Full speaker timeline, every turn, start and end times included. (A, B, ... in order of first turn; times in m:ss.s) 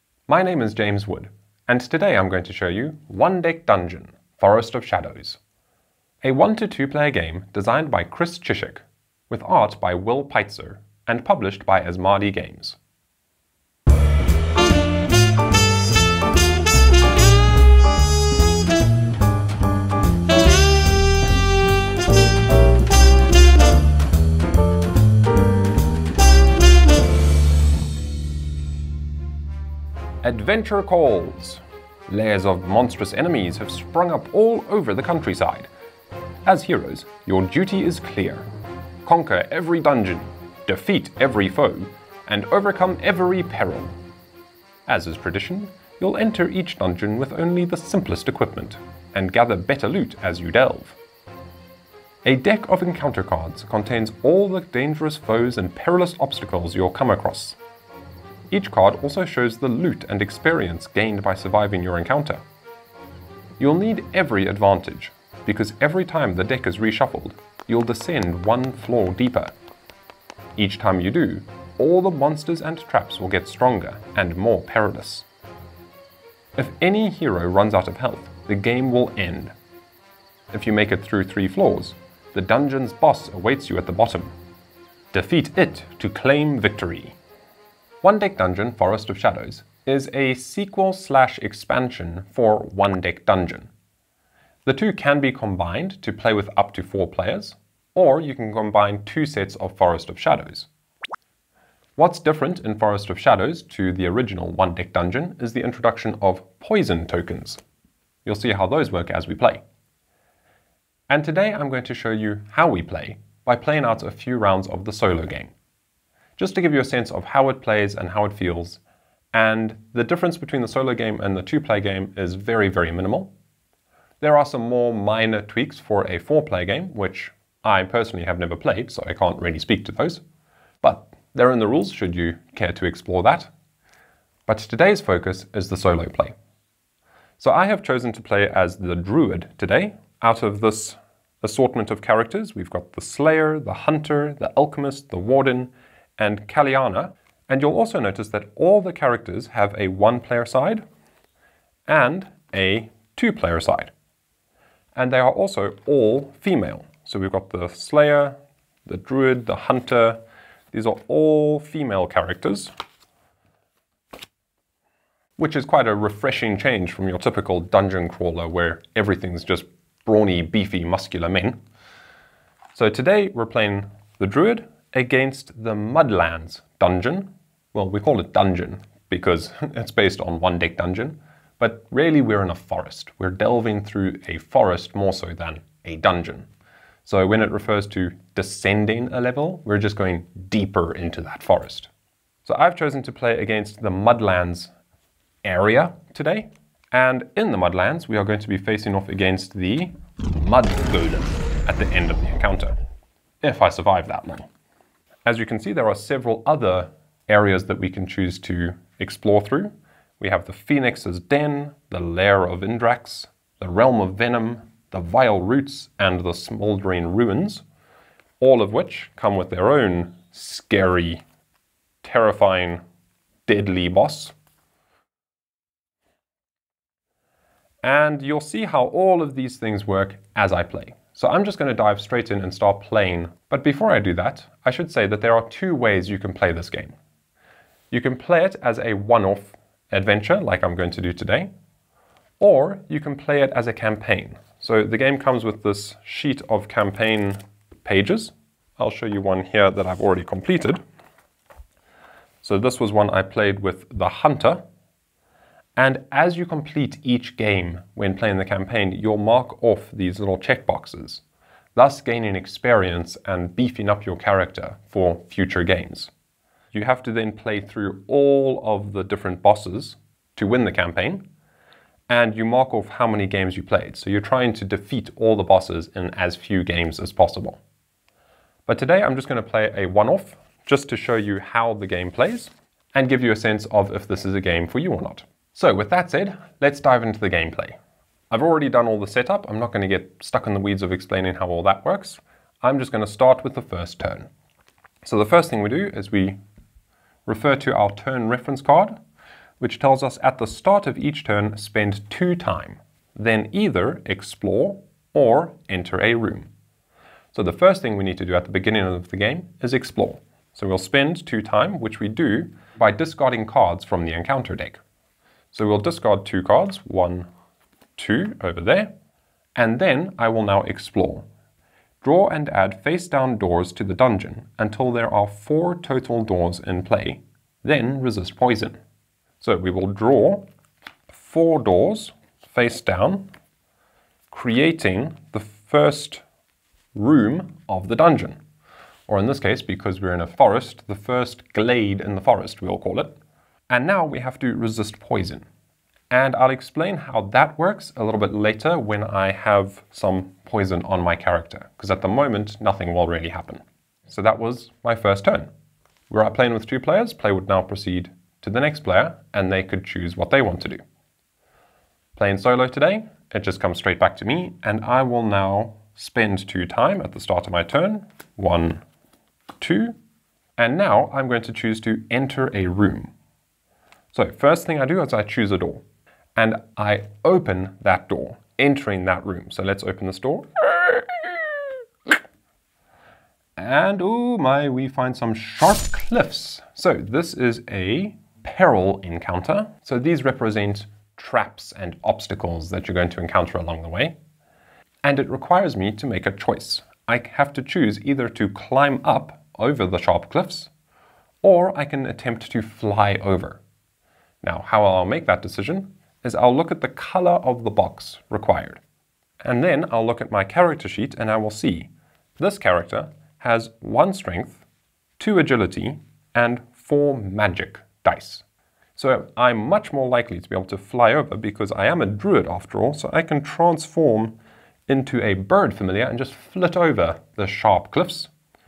0:00.3-0:05.4 A
0:06.2-0:12.8 A
0:30.2-0:35.7 A
0:36.5-0:38.5 A
0:39.0-0:43.9 A
0:44.9-0:51.0 A
0:52.2-0:57.6 A
0:58.5-1:02.4 A
1:03.6-1:09.5 A
1:10.6-1:15.3 A
1:16.6-1:19.5 A
1:20.5-1:24.4 A
1:25.1-1:27.2 A
1:28.0-1:33.7 A
1:34.7-1:40.7 A
1:42.0-1:47.6 A
1:48.2-1:49.6 A
1:51.1-1:55.5 A
1:56.4-1:58.8 A
1:59.3-2:03.3 A
2:04.2-2:10.2 A
2:10.8-2:13.5 A
2:14.5-2:16.4 A
2:17.4-2:30.8 A
2:31.9-2:33.9 A
2:35.0-2:40.2 A
2:40.7-2:42.7 A
2:45.4-2:51.6 A
2:52.8-3:06.5 A
3:07.0-3:11.9 A
3:12.4-3:14.7 A
3:15.4-3:22.8 A
3:23.4-3:24.5 A
3:25.3-3:37.6 A
3:38.4-3:41.2 A
3:42.0-3:42.8 A
3:43.5-3:44.3 A
3:47.8-3:57.0 A
3:57.9-4:01.5 A
4:02.4-4:10.8 A
4:12.4-4:14.6 A
4:15.8-4:21.2 A
4:21.8-4:26.1 A
4:26.7-4:31.2 A
4:32.1-4:37.6 A
4:38.7-4:47.8 A
4:48.3-4:54.3 A
4:55.0-4:56.4 A
4:57.3-4:59.0 A
4:59.6-5:06.5 A
5:07.3-5:14.8 A
5:15.5-5:17.3 A
5:18.0-5:18.9 A
5:19.6-5:21.3 A
5:22.0-5:28.8 A
5:29.4-5:30.5 A
5:31.1-5:33.3 A
5:34.3-5:36.2 A
5:37.0-5:38.4 A
5:39.1-5:43.2 A
5:43.7-5:45.4 A
5:46.1-5:55.5 A
5:56.1-6:00.8 A
6:02.2-6:08.8 A
6:09.6-6:10.0 A
6:10.6-6:13.1 A
6:14.1-6:15.8 A
6:16.4-6:22.1 A
6:23.6-6:34.2 A
6:35.0-6:40.7 A
6:41.4-6:43.6 A
6:44.4-6:48.8 A
6:49.4-6:54.6 A
6:55.2-6:58.4 A
6:59.0-7:04.4 A
7:04.9-7:08.3 A